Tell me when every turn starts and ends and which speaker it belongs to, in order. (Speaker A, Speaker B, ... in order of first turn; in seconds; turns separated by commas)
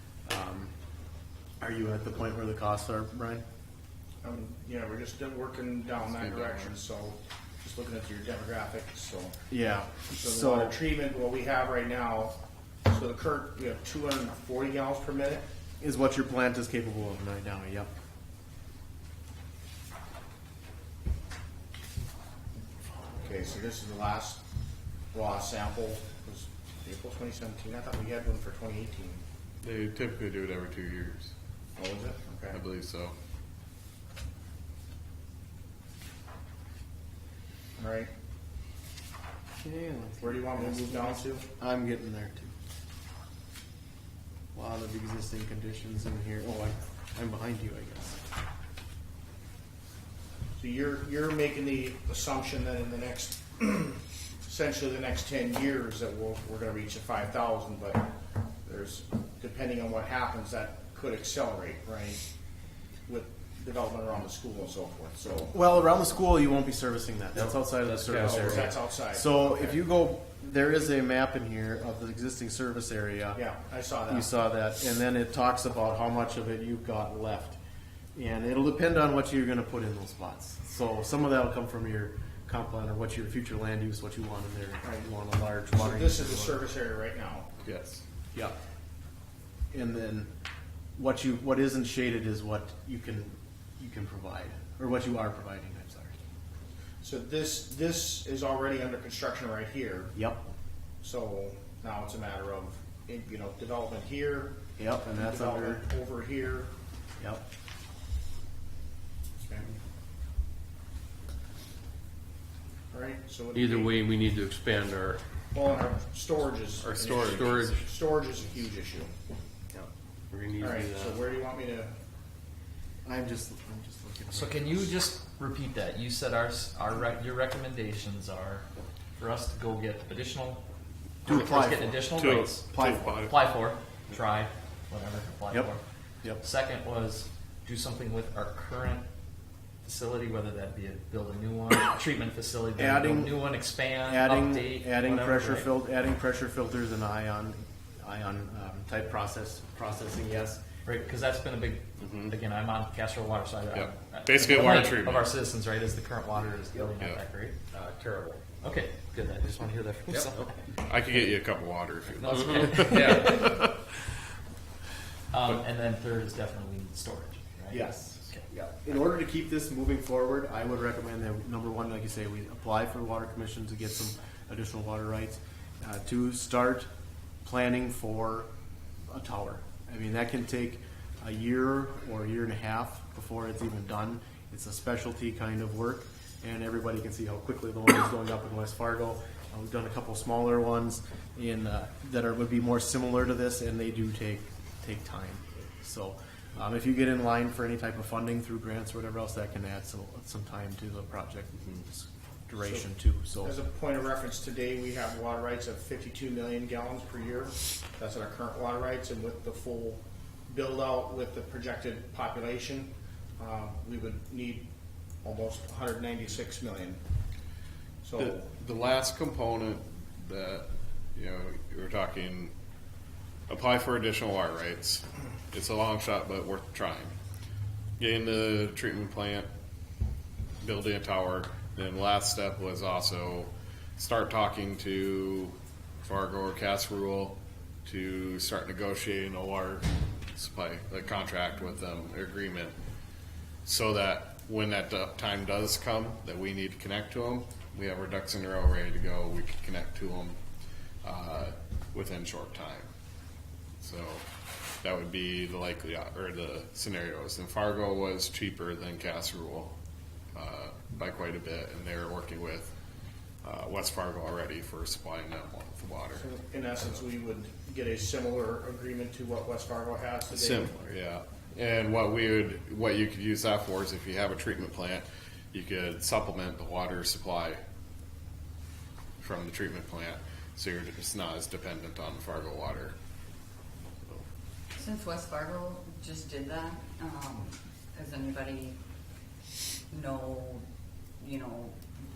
Speaker A: 0.3-0.7, Speaker A: 1.6-3.4, Speaker B: 4.2-9.3, Speaker C: 6.0-6.8, Speaker A: 9.5-10.8, Speaker B: 10.2-12.3, Speaker B: 12.9-15.5, Speaker A: 15.8-17.9, Speaker B: 23.2-24.4, Speaker B: 25.1-29.2, Speaker C: 29.6-31.3, Speaker B: 31.8-32.6, Speaker C: 32.5-33.1, Speaker B: 37.8-38.1, Speaker A: 39.6-42.5, Speaker B: 40.2-41.5, Speaker A: 44.5-48.2, Speaker B: 50.6-58.1, Speaker B: 58.7-62.2, Speaker B: 63.1-65.5, Speaker A: 65.5-73.4, Speaker D: 67.4-68.6, Speaker B: 68.1-69.8, Speaker B: 73.3-74.3, Speaker A: 74.1-77.6, Speaker A: 78.2-86.7, Speaker B: 85.7-87.5, Speaker C: 87.6-88.0, Speaker A: 89.7-90.3, Speaker A: 91.0-96.2, Speaker B: 97.0-100.2, Speaker A: 100.2-100.5, Speaker B: 101.0-106.7, Speaker A: 104.8-105.8, Speaker B: 109.4-109.7, Speaker B: 112.9-114.0, Speaker D: 113.5-115.2, Speaker B: 115.5-119.1, Speaker C: 116.8-117.6, Speaker D: 117.2-117.8, Speaker D: 119.8-121.2, Speaker B: 120.6-121.9, Speaker A: 123.0-124.9, Speaker E: 124.3-130.6, Speaker A: 131.2-133.2, Speaker E: 131.2-135.8, Speaker C: 132.2-133.3, Speaker A: 135.5-136.4, Speaker E: 136.3-139.1, Speaker E: 139.8-145.7, Speaker A: 142.8-143.4, Speaker A: 144.1-150.6, Speaker E: 150.8-157.6, Speaker C: 152.0-152.3, Speaker C: 153.7-155.3, Speaker D: 158.0-158.3, Speaker E: 158.6-160.4, Speaker C: 160.8-163.8, Speaker E: 162.2-163.7, Speaker E: 165.3-168.5, Speaker A: 167.7-176.9, Speaker A: 177.4-178.5, Speaker A: 179.1-203.6, Speaker B: 202.6-202.9, Speaker B: 203.4-214.7, Speaker B: 215.2-217.0, Speaker B: 218.0-218.5, Speaker C: 218.2-222.5, Speaker C: 223.5-227.2, Speaker C: 228.0-229.5, Speaker C: 230.6-242.8, Speaker C: 243.7-250.4, Speaker C: 251.0-252.9, Speaker C: 253.8-254.3, Speaker C: 254.8-259.8, Speaker C: 260.3-262.7, Speaker C: 263.4-266.3, Speaker B: 266.2-270.8, Speaker C: 270.3-277.6, Speaker C: 279.2-283.0, Speaker F: 284.8-288.8, Speaker F: 289.9-290.6, Speaker F: 291.2-291.8